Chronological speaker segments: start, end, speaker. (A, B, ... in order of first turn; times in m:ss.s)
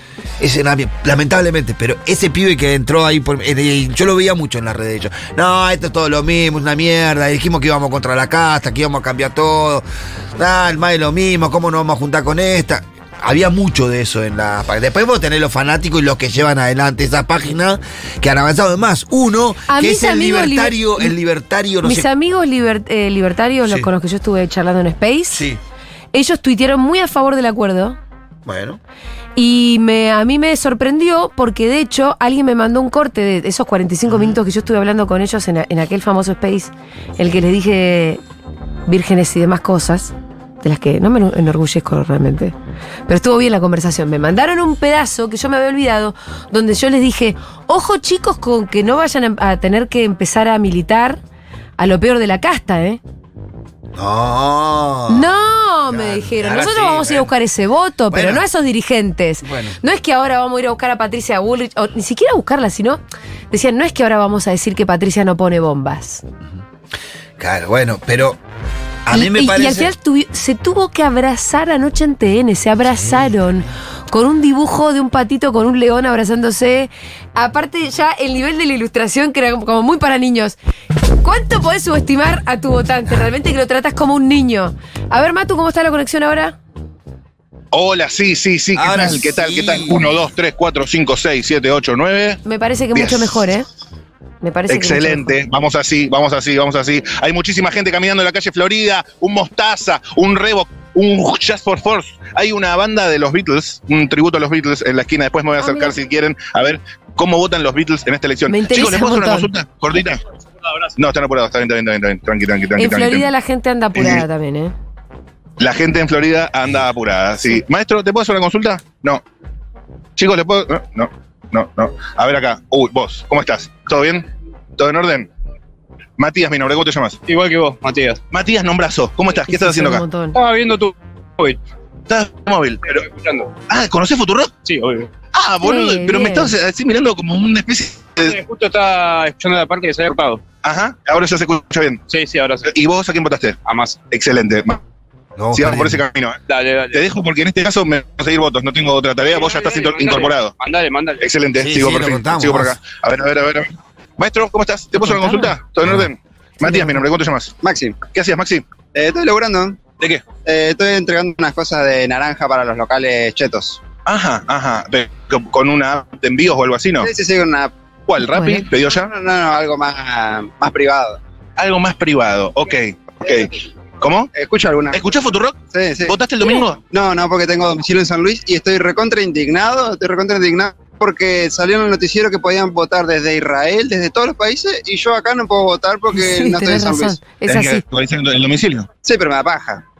0:00.4-0:09.8 A
0:10.4-0:22.1 A
0:19.7-0:21.1 B
0:21.8-0:25.4 B
0:25.3-0:25.6 A
0:26.1-0:28.0 B
0:28.4-0:28.8 A
0:29.4-0:38.2 B
0:34.1-0:34.3 A
0:38.9-0:42.5 B
0:43.1-0:51.2 B
0:51.8-0:53.0 B
0:53.9-0:55.3 A
0:55.1-1:06.2 B
0:55.9-0:57.3 A
0:58.1-0:58.4 A
0:59.4-0:59.8 A
1:07.4-1:08.4 A
1:09.0-1:09.9 A
1:09.1-1:20.6 B
1:12.9-1:13.6 A
1:21.2-1:26.6 B
1:27.7-1:32.4 C
1:28.7-1:30.0 A
1:32.4-1:33.6 B
1:32.9-1:33.4 C
1:34.4-1:35.3 B
1:34.7-1:50.2 C
1:45.6-1:46.0 B
1:48.5-1:49.5 B
1:51.0-1:53.3 C
1:52.8-1:54.7 B
1:53.9-1:54.2 C
1:55.6-1:59.2 C
2:00.2-2:05.3 C
2:06.2-2:07.2 C
2:07.3-2:08.2 D
2:08.3-2:10.0 C
2:09.5-2:10.4 B
2:10.3-2:11.6 D
2:12.1-2:13.0 C
2:13.0-2:13.6 D
2:13.7-2:14.5 C
2:14.6-2:15.1 D
2:15.3-2:18.4 C
2:15.6-2:16.5 B
2:18.2-2:20.4 D
2:20.6-2:22.0 C
2:22.1-2:22.7 D
2:22.6-2:23.6 C
2:23.6-2:24.0 D
2:24.1-2:24.8 C
2:25.4-2:26.0 A
2:25.5-2:26.4 C
2:26.5-2:27.1 D
2:26.9-2:30.5 C
2:29.3-2:31.3 D
2:31.2-2:37.5 C
2:31.6-2:32.8 A
2:35.0-2:35.5 B
2:36.6-2:37.0 B
2:37.6-2:38.0 E
2:38.1-2:38.6 C
2:38.9-2:39.8 E
2:40.4-2:43.8 E
2:44.0-2:47.1 C
2:47.0-2:47.7 E
2:48.1-2:49.1 C
2:48.2-2:48.6 B
2:48.9-2:51.2 E
2:51.6-2:54.3 C
2:54.3-2:55.0 E
2:54.9-2:56.8 C
2:55.7-2:56.1 E
2:56.9-3:07.2 E
3:06.1-3:07.8 B
3:07.4-3:08.9 C
3:09.0-3:09.8 E